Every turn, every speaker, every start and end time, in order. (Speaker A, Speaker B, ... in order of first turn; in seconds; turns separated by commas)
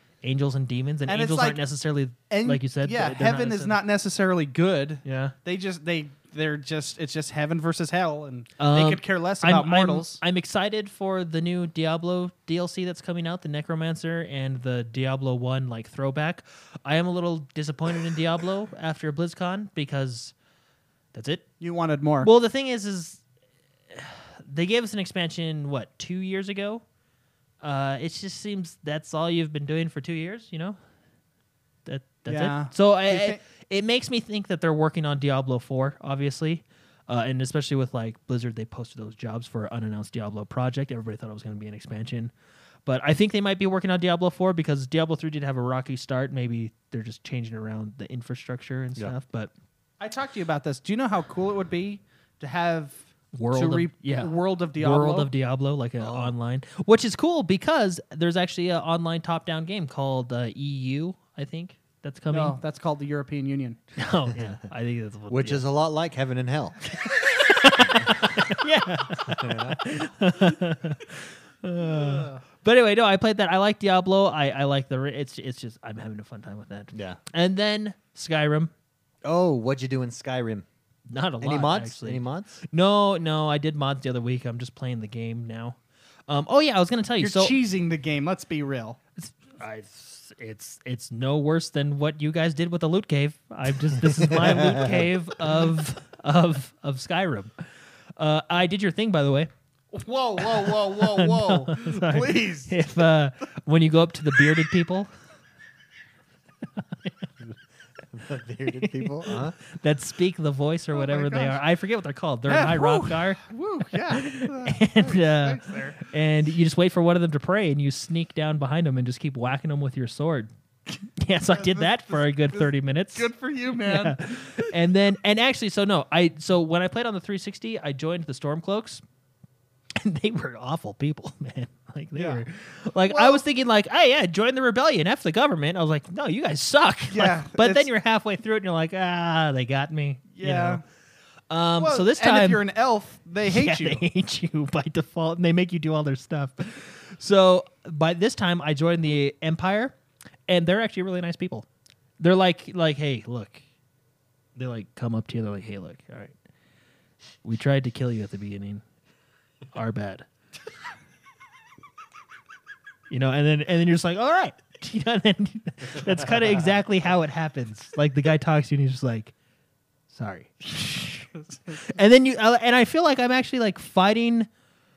Speaker A: 0.2-3.8, Speaker B: 1.1-1.6, Speaker B: 2.3-10.2, Speaker A: 5.0-5.3, Speaker A: 8.6-20.3, Speaker A: 21.1-21.4, Speaker B: 21.6-22.3, Speaker A: 22.2-23.2, Speaker A: 23.9-26.8, Speaker A: 27.6-30.8, Speaker A: 31.9-42.3, Speaker B: 32.3-33.4, Speaker A: 42.9-49.5, Speaker B: 50.0-55.3, Speaker A: 53.4-62.6, Speaker C: 56.0-56.3, Speaker B: 62.3-63.8, Speaker A: 64.0-65.6, Speaker C: 65.3-66.8, Speaker A: 67.0-78.7, Speaker C: 67.8-68.3, Speaker C: 69.2-70.1, Speaker B: 72.0-72.3, Speaker C: 76.9-77.2, Speaker C: 79.2-80.7, Speaker A: 81.1-85.8, Speaker C: 81.4-82.6, Speaker A: 86.3-87.6, Speaker B: 87.2-89.0, Speaker A: 89.2-97.5, Speaker C: 94.1-95.0, Speaker A: 98.2-99.5, Speaker B: 99.9-102.9, Speaker A: 100.4-105.1, Speaker A: 106.8-107.1, Speaker C: 108.1-109.6, Speaker A: 108.8-113.4, Speaker B: 110.9-111.6, Speaker B: 112.5-116.0, Speaker A: 113.9-120.5, Speaker A: 121.0-129.0, Speaker B: 121.5-124.6, Speaker A: 130.0-140.8, Speaker B: 132.2-132.4, Speaker B: 133.0-133.4, Speaker B: 137.1-137.9, Speaker B: 140.4-140.8, Speaker A: 141.5-142.6, Speaker B: 141.8-144.1, Speaker A: 143.4-149.9, Speaker A: 150.5-151.7, Speaker A: 152.2-153.6, Speaker A: 154.6-156.3, Speaker A: 157.4-158.8, Speaker A: 159.7-160.3, Speaker A: 163.1-169.3, Speaker A: 170.1-174.5